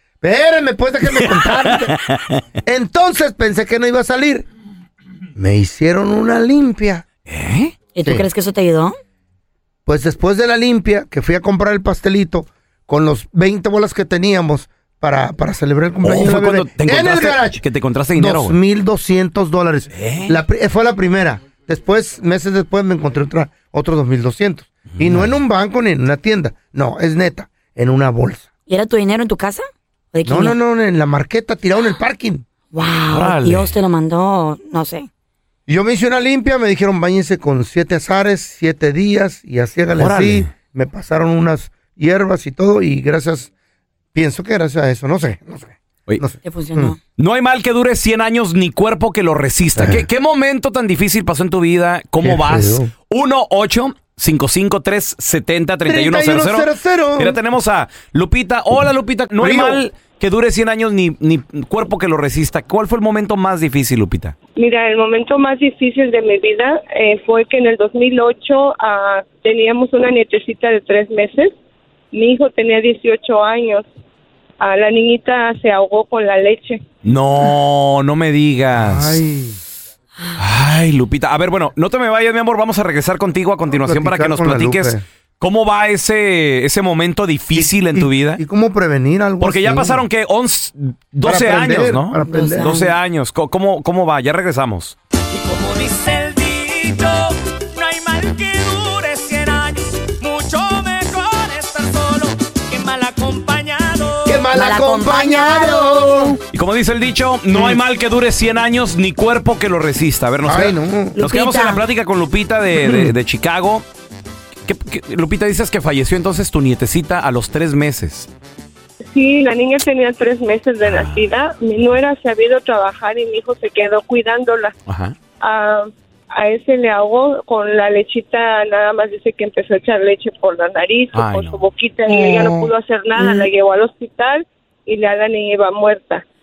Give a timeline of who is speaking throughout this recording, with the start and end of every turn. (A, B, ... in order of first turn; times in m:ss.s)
0:00.2-0:01.9 A
0:01.2-0:02.0 B
0:02.6-0:04.4 A
0:05.4-0:07.0 A
0:07.3-0:07.7 B
0:07.9-0:08.9 C
0:09.8-0:17.6 A
0:16.0-0:18.6 B
0:18.1-0:28.5 A
0:19.9-0:20.3 B
0:24.9-0:25.3 B
0:28.7-0:30.5 C
0:30.2-0:32.4 A
0:32.7-0:35.1 C
0:33.1-0:33.7 B
0:35.7-0:43.5 A
0:40.0-0:40.5 B
0:44.1-0:46.9 A
0:46.4-0:47.0 C
0:47.2-1:04.4 B
0:49.8-0:50.1 A
0:52.2-0:52.9 A
0:55.8-0:57.4 A
0:59.4-0:59.8 A
1:04.6-1:11.5 D
1:12.1-1:13.8 D
1:14.6-1:16.8 D
1:17.0-1:19.2 B
1:18.7-1:19.6 A
1:20.4-1:28.4 B
1:23.7-1:25.0 A
1:27.5-1:30.0 A
1:29.4-1:35.0 B
1:31.2-1:32.7 A
1:32.2-1:32.9 C
1:35.3-1:44.4 E
1:44.2-1:46.4 A
1:44.5-1:46.4 C
1:46.5-1:53.8 B
1:47.5-1:47.8 A
1:50.4-1:51.2 A
1:51.1-1:51.8 C
1:52.8-1:53.1 A
1:54.6-1:58.3 B
1:59.1-2:04.7 D
2:00.8-2:01.3 B
2:04.8-2:05.1 B
2:05.4-2:16.2 D
2:11.1-2:11.7 B
2:12.1-2:12.7 A
2:13.2-2:13.5 C